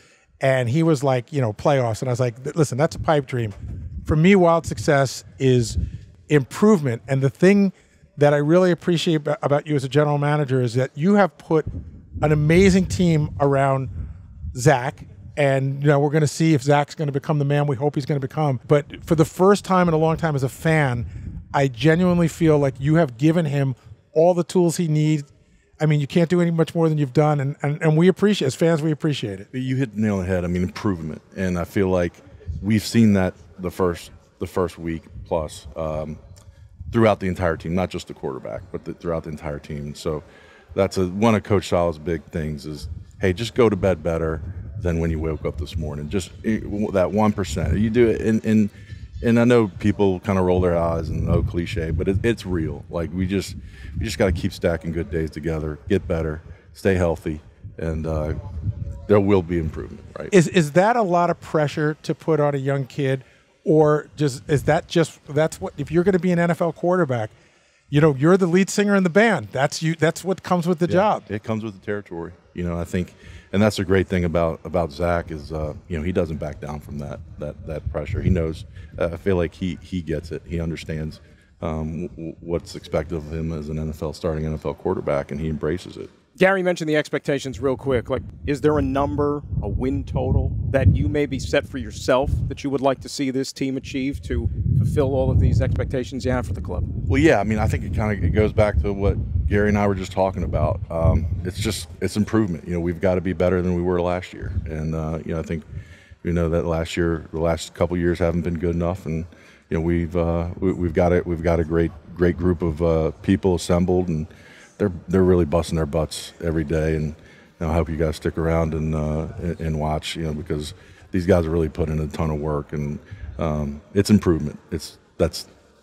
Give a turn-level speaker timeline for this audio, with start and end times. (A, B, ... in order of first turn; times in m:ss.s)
0:00.4-0:11.7 A
0:12.2-0:13.9 A
0:14.5-0:25.3 A
0:25.8-0:29.5 A
0:29.5-0:36.2 B
0:36.9-0:40.2 B
0:40.8-0:58.4 B
0:59.1-1:00.3 B
1:00.3-1:07.3 A
1:07.9-1:11.3 A
1:10.9-1:26.1 B
1:26.4-1:36.9 C
1:37.1-1:45.6 B
1:46.2-2:05.5 B